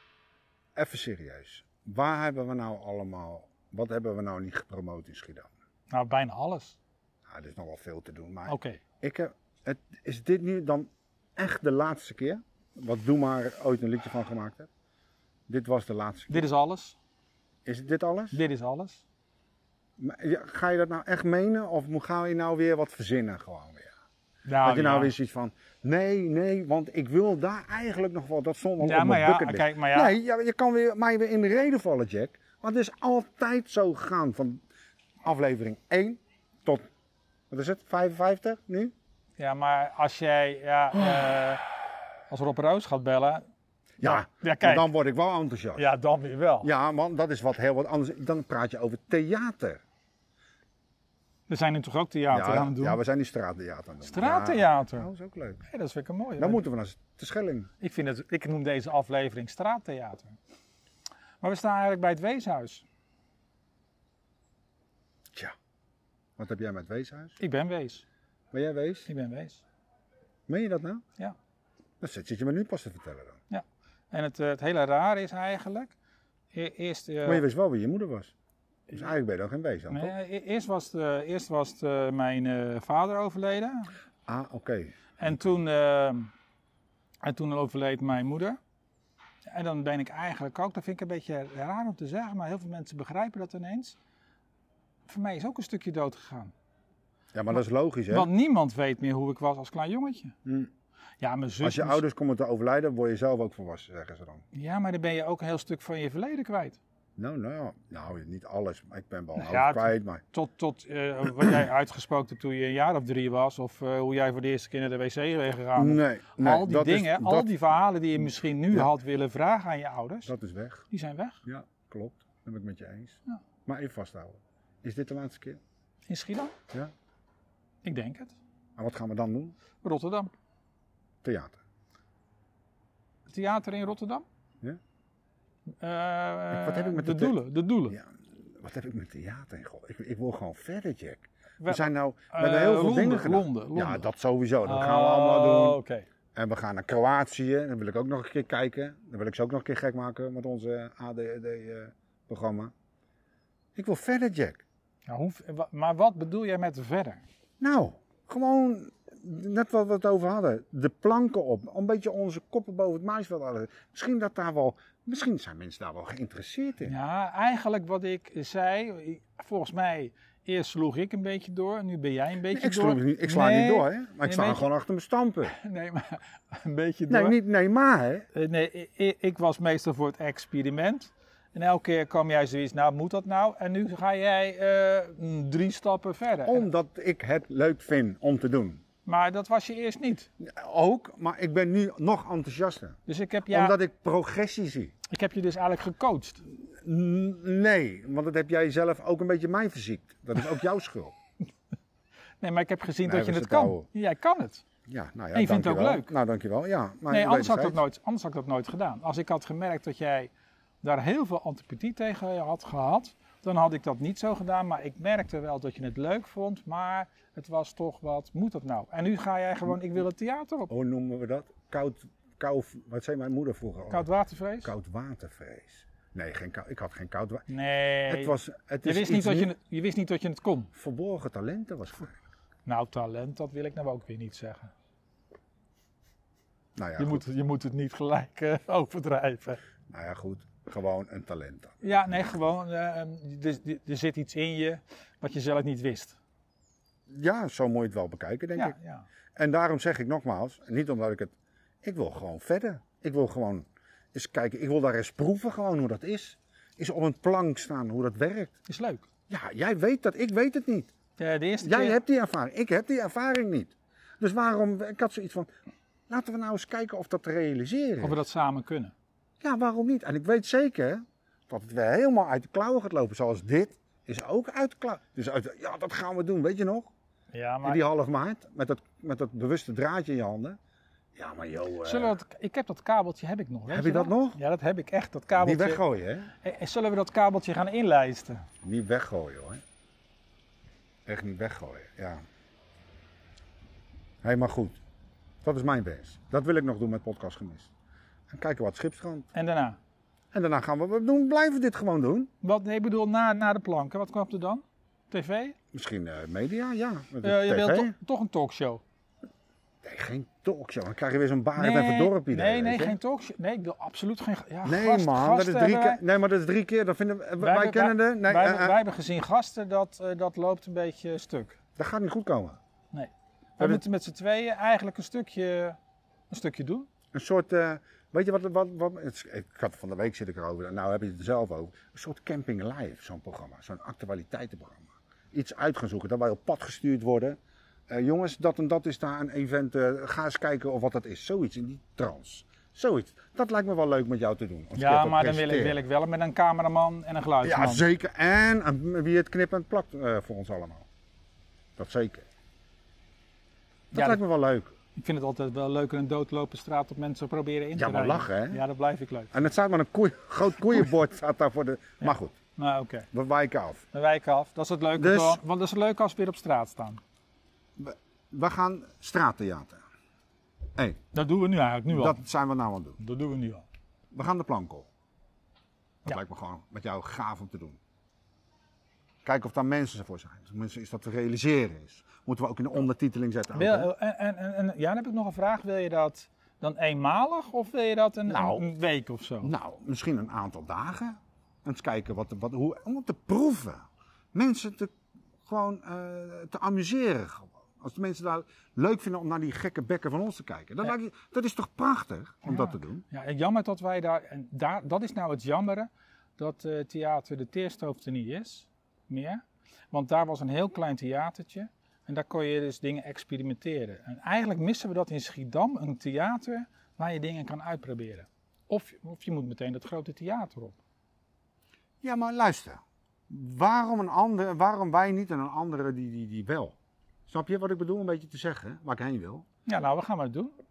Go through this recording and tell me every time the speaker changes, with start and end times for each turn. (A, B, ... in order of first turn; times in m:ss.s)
0:00.8-0:05.5 A
0:05.9-0:06.8 B
0:07.3-0:14.7 A
0:08.5-0:08.8 B
0:15.5-0:16.5 A
0:16.3-0:17.0 B
0:17.6-0:18.4 A
0:18.3-0:19.0 B
0:20.0-0:23.9 A
0:24.4-0:25.1 B
0:24.6-0:34.6 A
0:28.8-0:30.1 B
0:35.2-0:36.8 A
0:37.5-0:38.9 A
0:39.4-0:41.6 B
0:42.3-0:43.4 B
0:44.0-0:45.9 A
0:44.0-0:44.9 B
0:45.8-0:46.7 B
0:46.6-0:49.8 A
0:51.5-0:53.0 B
0:52.3-0:55.6 A
0:54.0-0:55.1 B
0:55.7-0:56.6 B
0:56.4-0:57.7 A
0:57.8-1:00.4 B
1:01.4-1:02.8 B
1:06.4-1:07.4 A
1:07.4-1:08.0 B
1:08.5-1:09.1 A
1:09.1-1:09.6 B
1:10.5-1:11.0 A
1:12.0-1:13.4 A
1:13.5-1:15.9 B
1:16.5-1:17.4 B
1:17.2-1:18.3 A
1:18.9-1:20.1 A
1:19.9-1:23.9 B
1:24.3-1:25.1 A
1:25.2-1:26.3 B
1:27.2-1:28.6 B
1:29.5-1:34.0 B
1:35.1-1:36.5 B
1:37.3-1:38.3 A
1:38.1-1:40.3 B
1:40.4-1:40.7 A
1:41.2-1:42.0 B
1:41.6-1:44.4 A
1:44.5-1:46.8 B
1:47.2-1:50.2 A
1:49.4-2:00.3 B
1:55.8-1:57.5 A
2:00.2-2:00.8 A
2:00.9-2:01.4 B
2:01.4-2:05.6 A
2:06.1-2:06.6 B
2:07.8-2:08.3 B
2:08.8-2:09.6 A
2:09.8-2:10.3 B
2:11.2-2:11.6 A
2:13.3-2:14.2 B
2:15.8-2:18.0 B
2:16.5-2:25.8 A
2:21.6-2:24.0 B
2:24.6-2:26.0 B
2:26.3-2:32.7 A
2:33.7-2:34.6 A
2:35.1-2:37.2 B
2:37.6-2:46.9 A
2:46.8-2:54.7 B
2:52.5-2:55.5 A
2:55.5-2:57.4 B
2:57.1-2:58.3 A
2:58.3-3:06.6 B
3:06.4-3:08.8 A
3:09.0-3:10.3 B
3:10.4-3:13.0 A
3:13.0-3:13.8 B
3:13.5-3:14.9 A
3:15.1-3:16.4 B
3:16.6-3:21.1 A
3:22.4-3:24.6 B
3:23.0-3:23.9 A
3:24.9-3:27.8 A
3:25.3-3:26.1 B
3:27.1-3:30.3 B
3:30.8-3:40.7 B
3:40.7-3:44.1 A
3:43.9-3:44.7 B
3:44.6-3:47.5 A
3:47.5-3:50.7 B
3:48.1-3:49.5 A
3:50.7-3:52.2 A
3:52.6-3:54.7 B
3:56.8-3:57.2 A
3:57.0-3:59.6 B
3:59.9-4:02.0 A
4:01.8-4:06.2 B
4:07.1-4:08.8 A
4:08.5-4:09.0 B
4:09.4-4:18.5 A
4:18.7-4:19.1 B
4:19.3-4:20.9 A
4:21.2-4:22.0 B
4:21.6-4:25.5 A
4:26.1-4:28.2 A
4:28.0-4:28.9 B
4:29.4-4:36.9 A
4:37.3-4:37.8 B
4:37.6-4:40.6 A
4:41.2-4:42.2 A
4:41.8-4:45.8 B
4:43.7-4:44.4 A
4:45.4-4:46.3 A
4:46.4-4:48.4 B
4:48.6-4:49.6 A
4:51.0-4:52.2 A
4:54.2-4:54.8 A
4:55.4-4:57.7 A
4:58.3-4:59.3 A
4:59.3-4:59.8 B
5:00.3-5:02.3 A
5:02.4-5:05.6 B
5:05.7-5:07.9 A
5:07.2-5:08.8 B
5:09.8-5:13.0 A
5:11.6-5:16.0 B
5:14.6-5:18.8 A
5:17.4-5:21.6 B
5:21.8-5:22.6 A
5:22.9-5:25.8 B
5:26.3-5:26.9 B
5:27.1-5:37.4 A
5:37.9-5:45.8 A
5:44.8-5:47.8 B
5:47.4-5:50.9 A
5:51.8-5:52.2 A
5:53.9-5:54.7 A
5:53.9-5:54.2 B
5:55.0-5:59.3 B
5:57.7-5:58.6 A
5:59.3-6:02.4 A
6:02.0-6:03.1 B
6:03.1-6:03.8 A
6:03.9-6:07.0 B
6:05.0-6:05.4 A
6:07.8-6:09.8 A
6:11.1-6:12.2 B
6:11.9-6:13.0 A
6:13.0-6:13.6 B
6:14.1-6:14.9 A
6:16.0-6:17.8 A
6:19.2-6:23.9 A
6:23.5-6:29.5 B
6:28.3-6:28.7 A
6:29.4-6:34.9 A
6:35.4-6:43.0 A
6:42.4-7:00.8 B
7:02.0-7:06.8 A
7:07.3-7:09.4 A
7:09.7-7:10.5 B